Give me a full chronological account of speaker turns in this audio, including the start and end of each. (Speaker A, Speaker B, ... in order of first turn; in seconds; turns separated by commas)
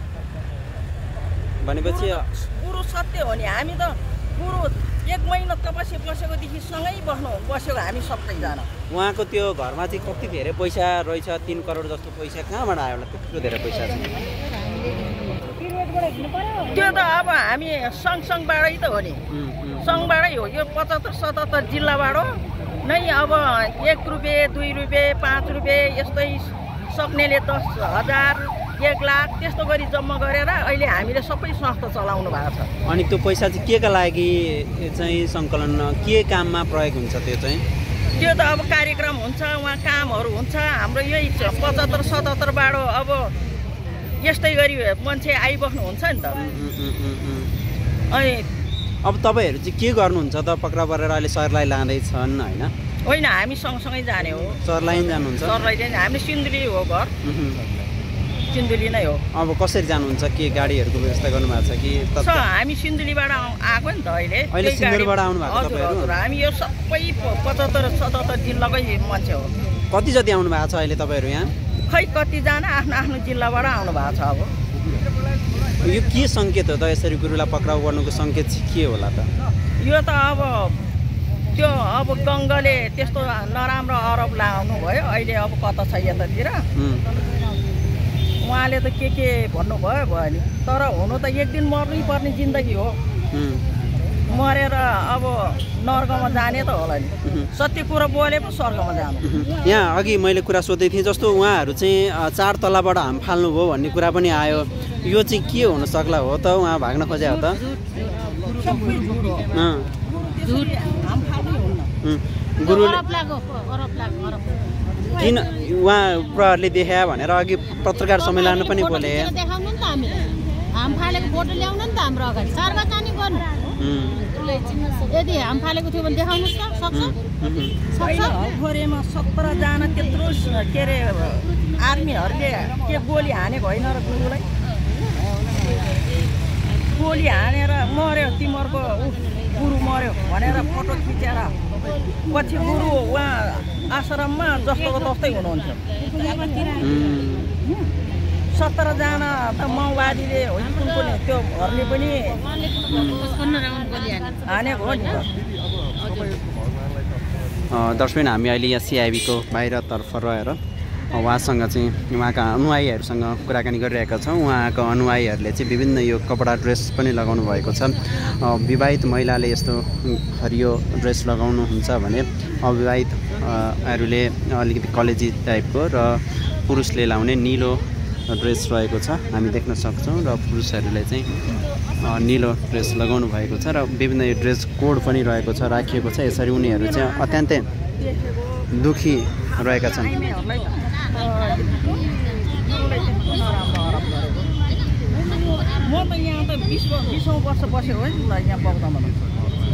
Speaker A: 1.6-2.2, Speaker B: 1.8-8.7, Speaker A: 8.9-14.2, Speaker C: 14.8-16.5, Speaker B: 16.6-19.2, Speaker A: 19.3-20.1, Speaker B: 19.8-32.7, Speaker A: 32.9-37.6, Speaker B: 38.1-43.4, Speaker B: 44.2-46.5, Speaker A: 46.4-47.5, Speaker B: 48.1-48.5, Speaker A: 49.0-52.7, Speaker B: 53.0-54.6, Speaker A: 54.6-55.5, Speaker B: 55.4-57.1, Speaker A: 57.2-57.8, Speaker B: 58.5-59.2, Speaker A: 59.3-62.5, Speaker B: 62.2-69.5, Speaker A: 64.5-66.2, Speaker A: 69.9-71.5, Speaker B: 71.9-74.5, Speaker A: 75.8-79.3, Speaker B: 79.8-80.8, Speaker B: 81.5-86.7, Speaker A: 86.8-87.0, Speaker B: 88.4-93.0, Speaker A: 93.3-93.6, Speaker B: 94.3-99.3, Speaker A: 97.2-97.5, Speaker A: 99.2-107.6, Speaker C: 107.5-108.1, Speaker B: 108.2-111.9, Speaker A: 109.5-109.9, Speaker A: 112.0-113.0, Speaker C: 112.6-114.6, Speaker A: 115.1-119.3, Speaker C: 118.2-123.5, Speaker A: 123.8-124.3, Speaker C: 124.3-127.2, Speaker A: 126.9-127.8, Speaker C: 127.9-128.3, Speaker B: 127.9-134.4, Speaker B: 136.9-141.6, Speaker B: 142.3-145.8, Speaker C: 146.0-146.9, Speaker A: 146.8-147.6, Speaker B: 148.5-152.4, Speaker C: 152.5-154.9, Speaker A: 152.9-153.3, Speaker B: 154.4-155.3, Speaker C: 156.1-156.3, Speaker A: 157.7-181.3, Speaker A: 182.0-187.7, Speaker B: 186.5-187.4, Speaker B: 188.0-188.7, Speaker A: 188.7-190.2, Speaker B: 189.5-194.5, Speaker B: 195.7-199.2